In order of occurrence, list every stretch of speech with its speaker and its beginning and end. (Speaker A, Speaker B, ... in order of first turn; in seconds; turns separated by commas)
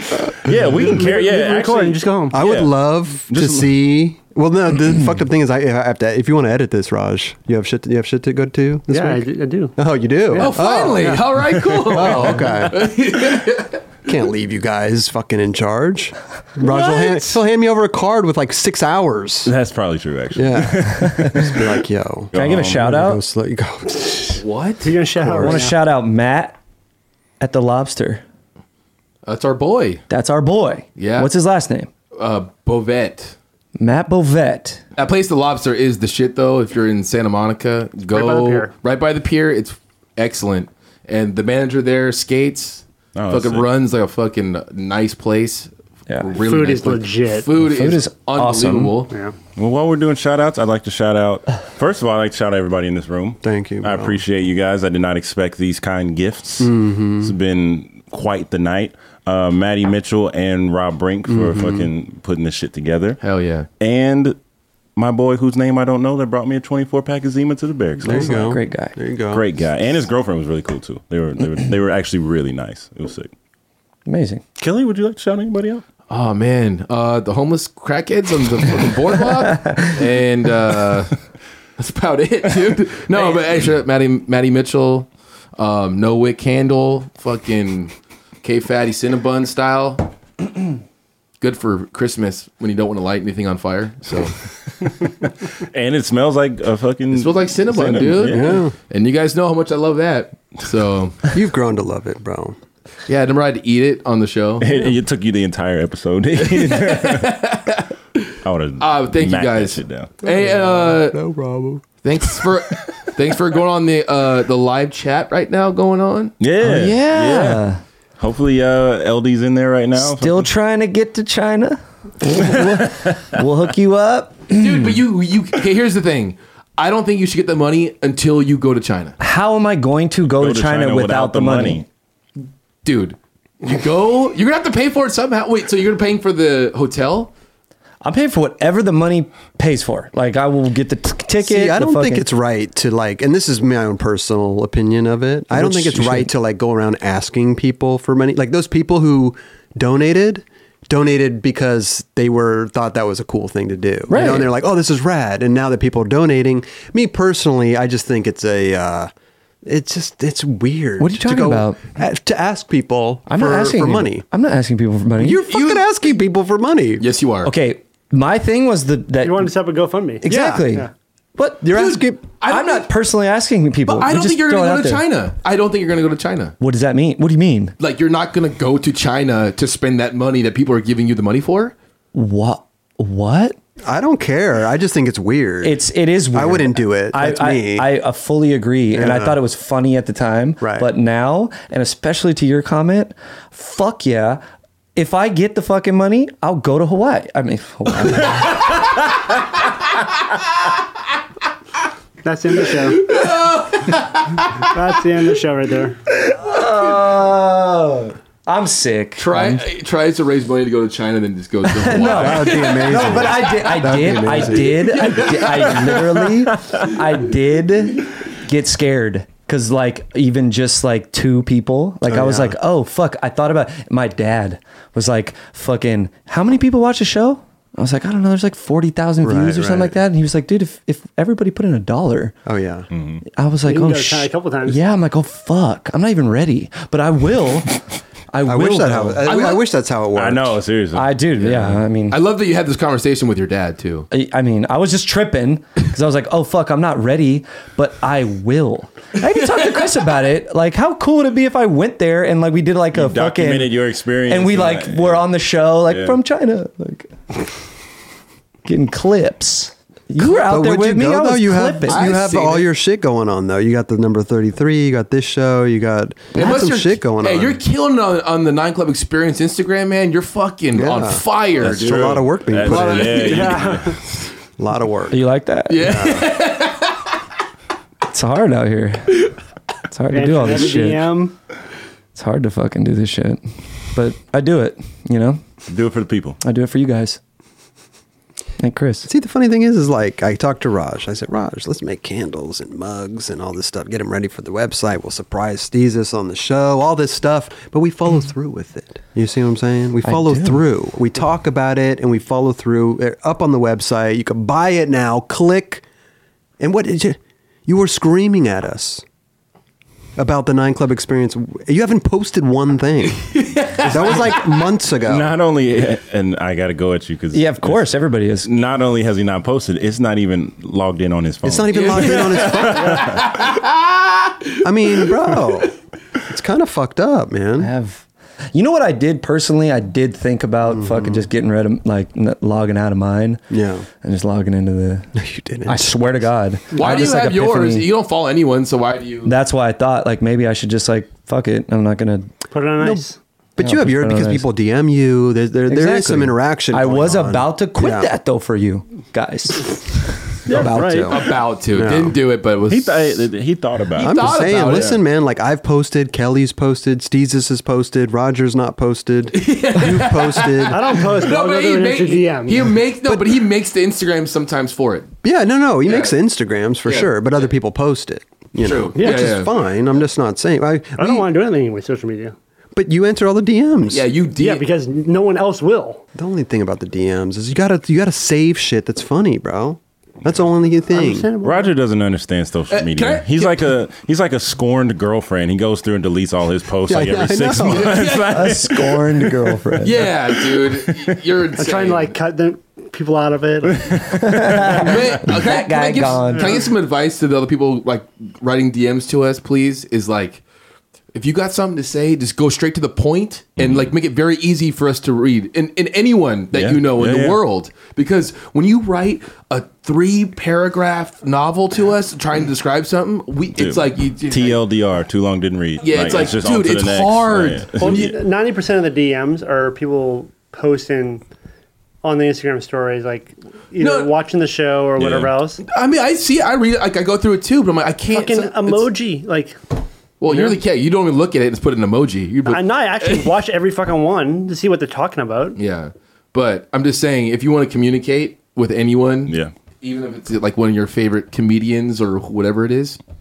Speaker A: 0.4-2.7, Speaker B: 0.7-2.4, Speaker C: 2.3-11.2, Speaker A: 3.3-3.7, Speaker B: 8.9-9.7, Speaker B: 10.3-11.2, Speaker D: 10.4-13.8, Speaker C: 11.9-12.9, Speaker C: 14.0-19.5, Speaker A: 19.4-21.8, Speaker C: 20.3-24.4, Speaker A: 22.3-22.8, Speaker E: 22.3-23.2, Speaker D: 24.3-24.9, Speaker B: 24.8-25.8, Speaker C: 25.2-25.6, Speaker E: 25.3-26.6, Speaker E: 27.4-28.2, Speaker D: 29.2-30.0, Speaker E: 30.1-31.9, Speaker D: 31.0-31.3, Speaker D: 32.1-33.3, Speaker E: 33.8-34.8, Speaker D: 35.0-45.7, Speaker B: 38.1-38.7, Speaker A: 43.1-43.7, Speaker D: 46.2-49.1, Speaker B: 46.4-47.5, Speaker E: 47.6-49.0, Speaker A: 49.5-63.2, Speaker C: 53.4-54.2, Speaker C: 56.6-57.3, Speaker C: 61.3-61.9, Speaker D: 63.2-63.7, Speaker A: 63.8-64.4, Speaker A: 65.0-68.4, Speaker C: 68.0-69.5, Speaker E: 68.0-68.9, Speaker A: 69.3-73.3, Speaker E: 74.0-74.4, Speaker A: 74.6-75.8, Speaker D: 76.1-81.2, Speaker E: 79.5-80.0, Speaker D: 81.8-90.1, Speaker D: 91.4-94.3, Speaker A: 94.8-98.6, Speaker D: 97.1-101.3, Speaker C: 98.2-98.7, Speaker C: 101.3-102.5, Speaker D: 103.1-104.8, Speaker A: 104.6-107.4, Speaker D: 106.4-111.2, Speaker A: 108.4-110.1, Speaker C: 110.2-111.8, Speaker D: 112.0-116.3, Speaker A: 116.4-117.6, Speaker E: 116.6-117.8, Speaker A: 118.2-120.5, Speaker E: 119.9-125.0, Speaker A: 122.4-123.2, Speaker D: 124.5-129.2, Speaker E: 129.2-131.8, Speaker A: 130.3-131.8, Speaker D: 132.8-137.3, Speaker E: 138.0-142.3, Speaker C: 141.4-159.1, Speaker E: 145.5-146.3, Speaker E: 154.1-154.5, Speaker C: 159.6-164.2, Speaker E: 161.0-161.8, Speaker E: 163.3-165.4, Speaker C: 165.2-167.0, Speaker D: 165.5-165.9, Speaker D: 167.0-167.5, Speaker E: 167.4-169.5, Speaker B: 169.2-170.9, Speaker E: 170.2-175.0, Speaker C: 170.2-170.7, Speaker C: 171.6-172.2, Speaker D: 171.7-172.8, Speaker D: 173.9-176.6, Speaker E: 176.6-177.7, Speaker D: 177.8-181.7, Speaker E: 182.1-183.6, Speaker C: 183.8-185.8, Speaker E: 185.6-194.4, Speaker C: 186.3-187.9, Speaker C: 188.9-189.4, Speaker C: 190.6-190.9, Speaker E: 194.9-198.6, Speaker B: 202.2-203.1, Speaker D: 202.8-204.4, Speaker B: 204.7-206.0, Speaker E: 206.1-209.6, Speaker D: 209.2-213.3, Speaker E: 211.7-232.3, Speaker C: 211.9-215.2, Speaker D: 215.0-215.8, Speaker C: 222.1-222.6, Speaker C: 229.2-230.0, Speaker C: 232.4-232.9, Speaker A: 232.9-233.2, Speaker E: 233.3-239.3, Speaker B: 233.7-234.8, Speaker C: 238.4-240.6, Speaker D: 239.2-239.6, Speaker A: 240.1-241.8, Speaker E: 240.9-242.2, Speaker D: 242.1-244.1, Speaker E: 244.1-257.4, Speaker A: 252.9-255.3, Speaker A: 255.9-256.2, Speaker E: 258.6-262.1, Speaker C: 260.2-267.6, Speaker D: 261.9-262.7, Speaker D: 266.3-273.6, Speaker C: 270.7-273.6, Speaker A: 271.6-274.0, Speaker B: 273.2-273.9, Speaker C: 274.6-275.2, Speaker E: 275.1-276.0, Speaker D: 275.7-277.1, Speaker C: 275.8-276.3, Speaker E: 278.1-279.2, Speaker E: 279.9-281.1, Speaker B: 280.1-281.3, Speaker E: 282.1-285.4, Speaker A: 285.6-286.4, Speaker E: 286.4-287.2, Speaker E: 288.6-289.1, Speaker C: 289.0-305.8, Speaker E: 300.0-300.6, Speaker C: 306.6-309.0, Speaker C: 310.2-315.3, Speaker D: 313.3-314.3, Speaker A: 315.1-323.3, Speaker E: 317.3-318.5, Speaker C: 321.4-323.2, Speaker D: 321.7-324.5, Speaker C: 324.6-325.7, Speaker C: 326.2-327.7, Speaker E: 327.6-333.4, Speaker C: 330.7-331.2, Speaker C: 333.5-333.9, Speaker E: 334.0-335.1, Speaker C: 335.1-336.3, Speaker E: 335.6-337.9, Speaker D: 336.7-339.3, Speaker E: 339.2-342.3, Speaker B: 342.5-343.2, Speaker C: 343.6-348.1, Speaker E: 343.6-344.4, Speaker E: 345.7-350.9, Speaker B: 350.5-351.2, Speaker C: 350.5-351.2, Speaker D: 351.1-353.2, Speaker C: 351.7-352.1, Speaker A: 352.7-354.9, Speaker D: 353.9-355.0, Speaker C: 354.0-361.1, Speaker D: 359.3-365.1, Speaker B: 360.7-362.7, Speaker C: 363.0-363.4, Speaker C: 365.2-371.3, Speaker D: 365.9-366.1, Speaker D: 366.8-367.3, Speaker D: 368.6-369.5, Speaker B: 369.0-369.3, Speaker B: 371.0-372.3, Speaker C: 372.7-374.0, Speaker D: 373.9-374.6, Speaker B: 374.4-376.0, Speaker C: 376.1-381.3, Speaker B: 380.9-381.7, Speaker A: 381.4-388.8, Speaker D: 382.7-383.7, Speaker C: 386.9-388.0, Speaker D: 387.6-388.7, Speaker E: 388.2-390.1, Speaker D: 389.8-392.1, Speaker B: 391.6-394.9, Speaker E: 393.9-396.6, Speaker D: 394.5-400.4, Speaker B: 396.3-396.7, Speaker D: 401.1-414.6, Speaker A: 406.5-407.4, Speaker A: 413.6-418.1, Speaker D: 415.8-418.1, Speaker B: 417.8-421.2, Speaker B: 422.0-425.6, Speaker D: 423.8-424.1, Speaker A: 424.9-425.3, Speaker D: 425.6-428.9, Speaker B: 428.1-429.6, Speaker D: 430.2-433.3, Speaker B: 432.4-435.6, Speaker D: 435.6-443.0, Speaker A: 439.3-439.5